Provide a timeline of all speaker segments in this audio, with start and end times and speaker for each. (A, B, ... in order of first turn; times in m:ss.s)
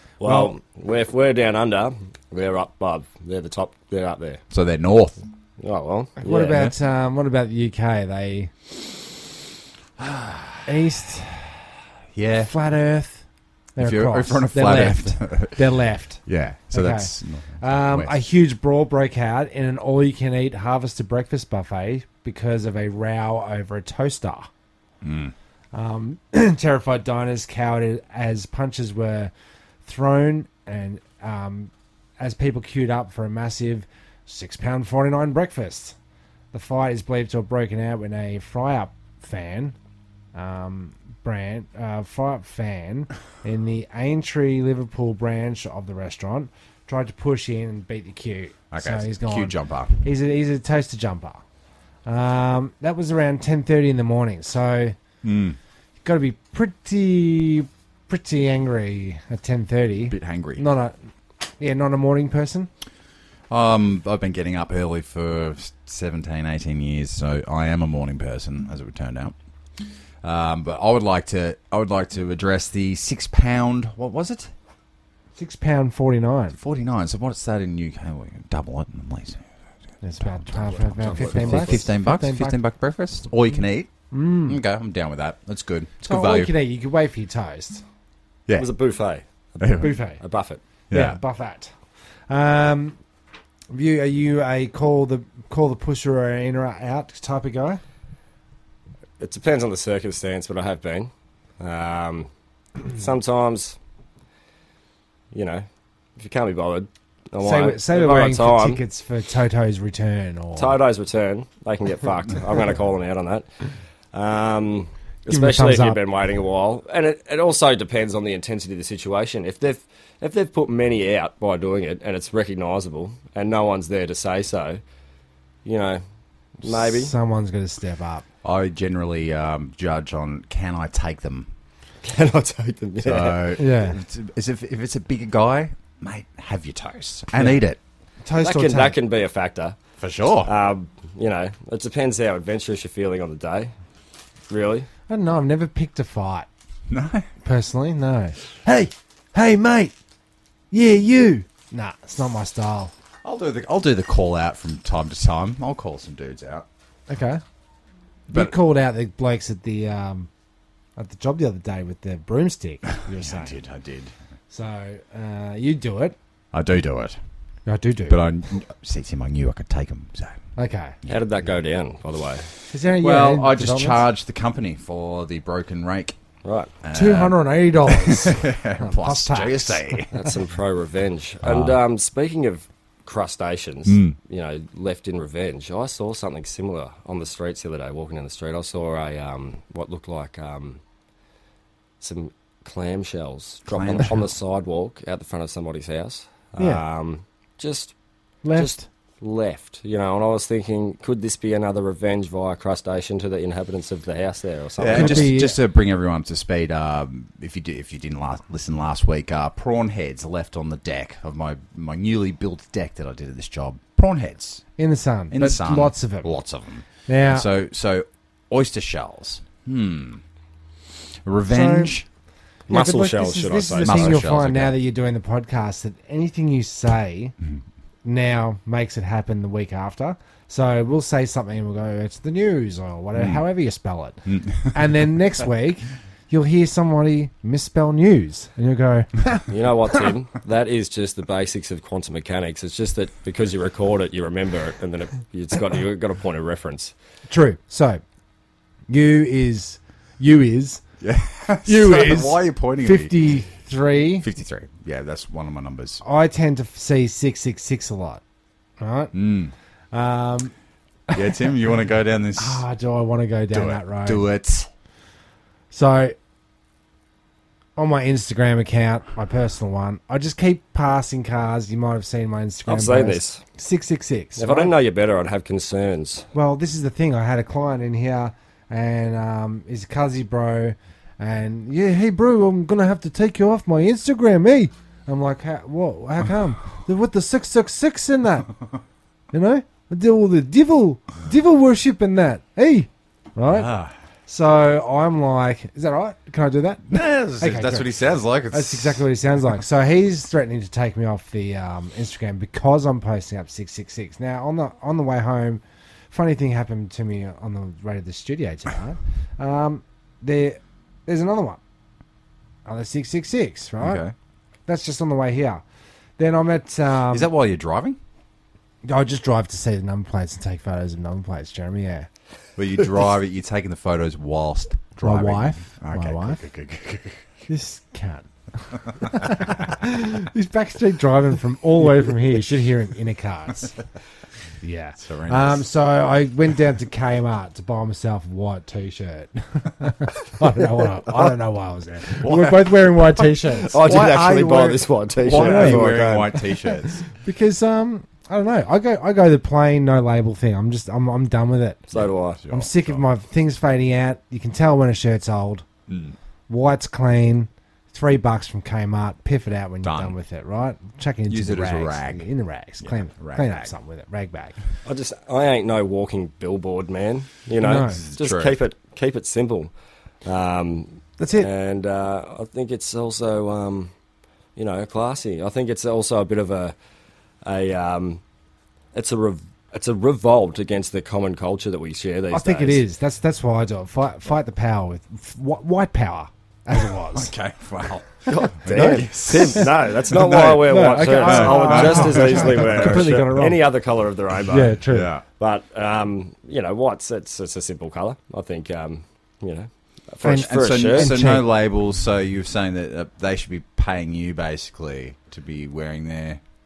0:00.2-0:04.4 A
0:00.2-0:00.5 B
0:04.5-0:05.2 C
0:05.6-0:06.7 A
0:06.2-0:08.5 B
0:10.0-0:10.5 C
0:10.6-0:11.6 B
0:12.1-0:12.5 C
0:12.4-0:13.2 B
0:13.8-0:24.5 B
0:13.8-0:15.6 C
0:16.2-0:18.1 C
0:25.0-0:25.3 C
0:25.7-0:29.3 B
0:29.8-0:36.0 B
0:36.5-0:39.8 B
0:40.3-0:51.4 B
0:48.7-0:50.0 C
0:52.1-0:55.0 B
0:55.2-0:55.6 C
0:56.0-1:02.7 B
1:00.1-1:00.6 C
1:03.5-1:09.4 C
1:10.2-1:14.5 C
1:15.4-1:16.6 B
1:16.5-1:19.4 C
1:20.0-1:22.6 B
1:20.2-1:23.9 C
1:20.7-1:21.8 A
1:24.1-1:24.6 B
1:24.5-1:26.5 C
1:26.0-1:27.8 B
1:28.6-1:30.6 A
1:29.6-1:30.0 C
1:29.8-1:30.2 B
1:30.9-1:31.2 C
1:30.9-1:31.7 B
1:32.3-1:33.0 B
1:33.7-1:37.8 B
1:39.2-1:42.3 A
1:42.8-1:43.8 A
1:45.3-1:45.6 A
1:46.2-1:48.8 A
1:47.4-1:50.8 B
1:50.6-1:53.5 A
1:54.1-2:04.8 A
1:55.3-1:56.0 B
2:05.6-2:06.0 A
2:06.6-2:07.1 A
2:06.6-2:08.2 B
2:08.4-2:11.5 C
2:12.0-2:13.4 A
2:13.0-2:17.8 C
2:13.6-2:14.0 B
2:17.4-2:17.6 B
2:18.2-2:19.0 B
2:18.4-2:19.8 A
2:20.0-2:20.5 C
2:20.4-2:23.7 A
2:24.5-2:24.9 A
2:25.1-2:26.5 B
2:26.9-2:27.3 C
2:27.4-2:29.9 B
2:30.7-2:32.9 B
2:33.2-2:36.7 C
2:37.1-2:37.4 B
2:38.3-2:40.3 B
2:41.0-2:43.6 B
2:43.1-2:44.1 C
2:44.5-2:46.2 B
2:46.5-2:47.2 C
2:47.7-2:48.2 B
2:48.1-2:50.4 C
2:50.6-2:51.0 B
2:51.1-2:52.5 A
2:52.7-2:54.0 B
2:52.9-2:56.2 C
2:56.4-2:56.7 A
2:56.8-3:00.2 C
2:56.9-3:00.0 B
3:00.1-3:10.8 A
3:01.4-3:01.8 C
3:03.8-3:04.2 C
3:12.0-3:17.9 A
3:13.7-3:14.2 C
3:16.6-3:16.8 B
3:18.4-3:18.8 B
3:18.6-3:25.4 A
3:24.8-3:34.6 C
3:24.9-3:25.6 B
3:34.8-3:36.3 B
3:35.3-3:40.2 C
3:37.1-3:37.5 B
3:41.2-3:42.1 C
3:41.5-3:41.9 B
3:42.7-3:44.2 A
3:42.7-3:47.4 B
3:43.8-3:44.8 C
3:48.0-3:59.4 B
3:53.2-3:53.4 C
3:54.3-3:54.8 C
3:59.5-4:06.9 A
4:07.3-4:08.0 B
4:08.9-4:10.8 B
4:11.0-4:13.4 C
4:11.6-4:14.3 B
4:14.2-4:16.0 C
4:16.0-4:18.2 B
4:18.8-4:19.1 B
4:19.1-4:19.5 C
4:19.9-4:20.5 B
4:21.1-4:21.4 B
4:21.1-4:22.6 C
4:22.4-4:24.3 B
4:23.5-4:24.7 C
4:25.7-4:26.2 B
4:27.8-4:34.7 B
4:32.7-4:33.4 A
4:34.4-4:36.3 A
4:36.3-4:48.5 B
4:49.3-4:53.7 B
4:53.5-4:53.9 C
4:54.3-4:57.9 B
4:56.9-4:59.0 C
4:58.5-5:11.6 B
5:12.7-5:14.0 B
5:13.8-5:14.1 C
5:14.7-5:15.6 B
5:16.2-5:17.3 B
5:17.1-5:18.0 C
5:18.8-5:22.1 B
5:22.6-5:27.2 C
5:25.0-5:26.4 B
5:27.5-5:33.8 B
5:34.6-5:43.8 B
5:35.0-5:35.6 C
5:42.2-5:42.9 C
5:43.6-5:46.3 A
5:43.8-5:47.0 C
5:45.3-5:51.8 B
5:51.9-5:52.4 A
5:52.0-5:53.0 C
5:52.5-5:55.7 B
5:55.9-5:56.2 C
5:56.5-6:04.6 B
5:59.8-6:00.2 C
6:01.3-6:02.3 C
6:02.8-6:03.7 C
6:04.9-6:09.7 A
6:07.6-6:08.0 B
6:08.0-6:08.6 C
6:10.2-6:13.9 A
6:11.2-6:11.5 B
6:14.6-6:16.7 A
6:17.4-6:18.2 A
6:18.9-6:22.8 A
6:22.3-6:27.3 B
6:27.1-6:33.2 C
6:28.3-6:34.8 A
6:28.7-6:29.6 B
6:30.3-6:33.6 B
6:34.5-6:35.1 B
6:34.9-6:35.2 C
6:35.4-6:41.2 A
6:40.2-6:41.5 B
6:40.3-6:46.4 C